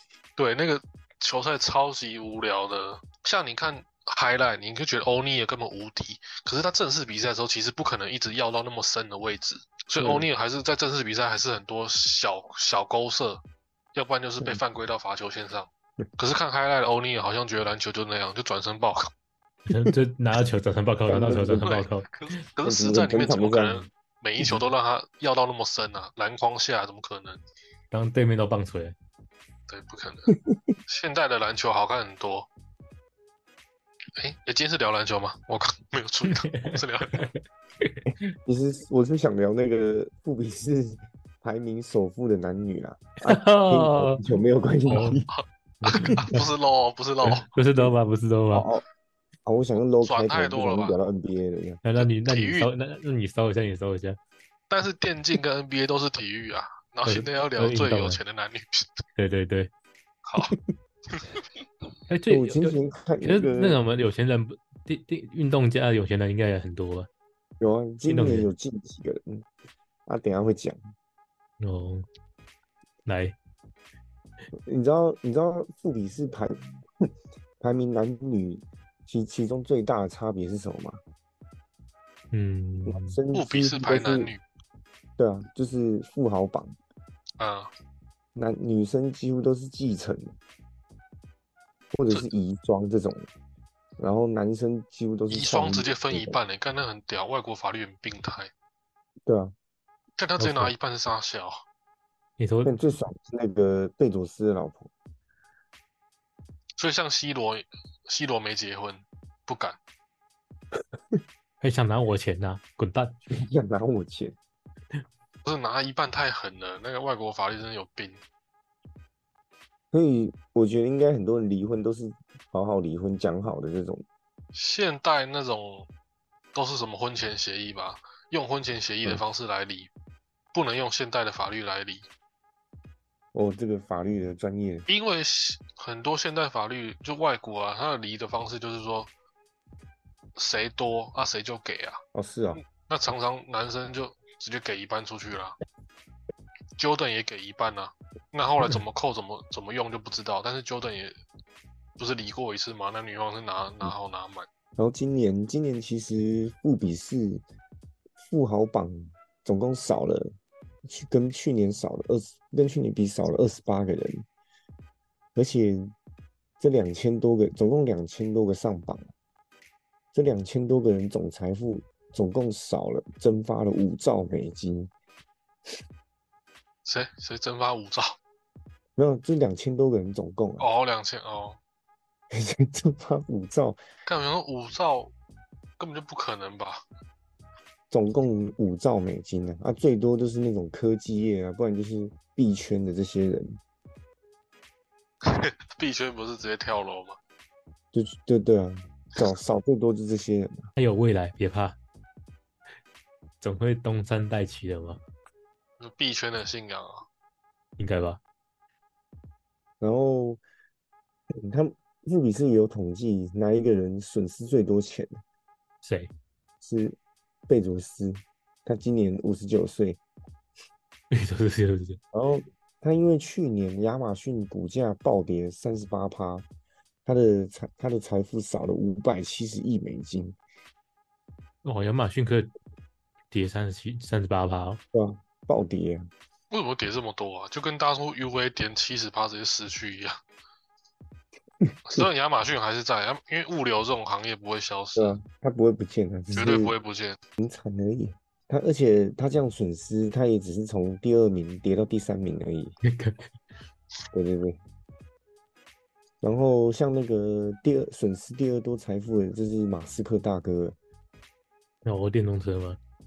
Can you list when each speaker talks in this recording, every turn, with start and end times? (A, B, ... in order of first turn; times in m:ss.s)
0:00.4-0:13.4 A
0:10.0-0:10.2 B
0:13.9-0:19.1 A
0:19.7-0:22.1 C
0:21.1-0:21.8 B
0:21.6-0:27.4 A
0:22.6-0:23.8 B
0:27.9-0:28.9 C
0:29.7-0:30.3 A
0:30.9-0:32.5 A
0:34.2-0:37.2 A
0:36.4-0:38.0 C
0:38.0-0:45.3 B
0:43.3-0:44.2 C
0:44.9-0:45.2 C
0:44.9-0:47.5 A
0:45.8-0:46.4 C
0:46.0-0:46.4 B
0:47.4-0:48.7 C
0:48.5-0:48.8 B
0:49.4-0:51.8 B
0:50.0-0:51.0 A
0:51.8-0:54.2 C
0:52.0-0:52.7 A
0:54.7-0:58.9 A
0:57.0-0:58.2 C
0:59.2-0:59.7 C
1:00.2-1:00.5 A
1:02.1-1:07.1 C
1:02.3-1:03.8 B
1:07.6-1:09.4 B
1:08.1-1:08.5 C
1:10.0-1:10.8 B
1:11.6-1:12.0 C
1:13.0-1:13.3 C
1:14.6-1:17.1 B
1:17.6-1:21.0 B
1:22.3-1:23.2 C
1:22.8-1:24.3 B
1:23.3-1:24.4 A
1:25.2-1:26.8 B
1:27.4-1:27.7 A
1:28.3-1:30.4 B
1:31.9-1:33.3 B
1:34.0-1:36.4 B
1:35.3-1:38.5 A
1:39.2-1:39.5 B
1:40.2-1:41.6 A
1:40.4-1:40.7 C
1:42.4-1:42.7 C
1:42.6-1:44.9 B
1:46.8-1:49.8 A
1:51.6-1:53.2 C
1:53.3-1:54.4 B
1:55.4-1:58.2 A
1:59.9-2:04.0 B
2:04.5-2:05.9 A
2:06.5-2:09.9 A
2:10.5-2:12.1 A
2:13.3-2:14.9 B
2:14.9-2:19.1 A
2:20.4-2:22.0 A
2:22.1-2:22.6 B
2:22.6-2:25.6 A
2:26.8-2:31.1 A
2:32.0-2:34.5 A
2:34.8-2:37.4 B
2:38.2-2:40.3 B
2:40.8-2:44.2 B
2:45.3-2:45.9 B
2:46.6-2:49.1 B
2:50.1-2:54.9 B
2:56.8-2:58.2 A
2:59.0-3:00.6 B
3:00.6-3:01.6 A
3:02.3-3:03.8 B
3:04.0-3:05.1 A
3:05.8-3:06.8 A
3:07.9-3:13.6 B
3:15.2-3:17.2 A
3:17.9-3:20.7 B
3:20.8-3:21.8 C
3:23.4-3:25.0 C
3:25.8-3:27.0 A
3:27.8-3:28.2 C
3:29.8-3:30.4 B
3:31.4-3:35.2 B
3:35.8-3:36.1 C
3:36.6-3:37.0 B
3:37.5-3:40.0 B
3:41.1-3:42.0 C
3:42.1-3:46.4 B
3:47.0-3:50.4 B
3:51.6-3:52.5 C
3:53.3-3:54.8 C
3:54.9-3:56.1 B
3:56.5-4:00.2 A
4:01.9-4:05.2 A
4:05.0-4:06.7 B
4:06.3-4:07.2 A
4:07.4-4:12.8 B
4:12.8-4:13.3 C
4:14.1-4:14.6 B
4:16.2-4:20.8 B
4:21.8-4:22.8 C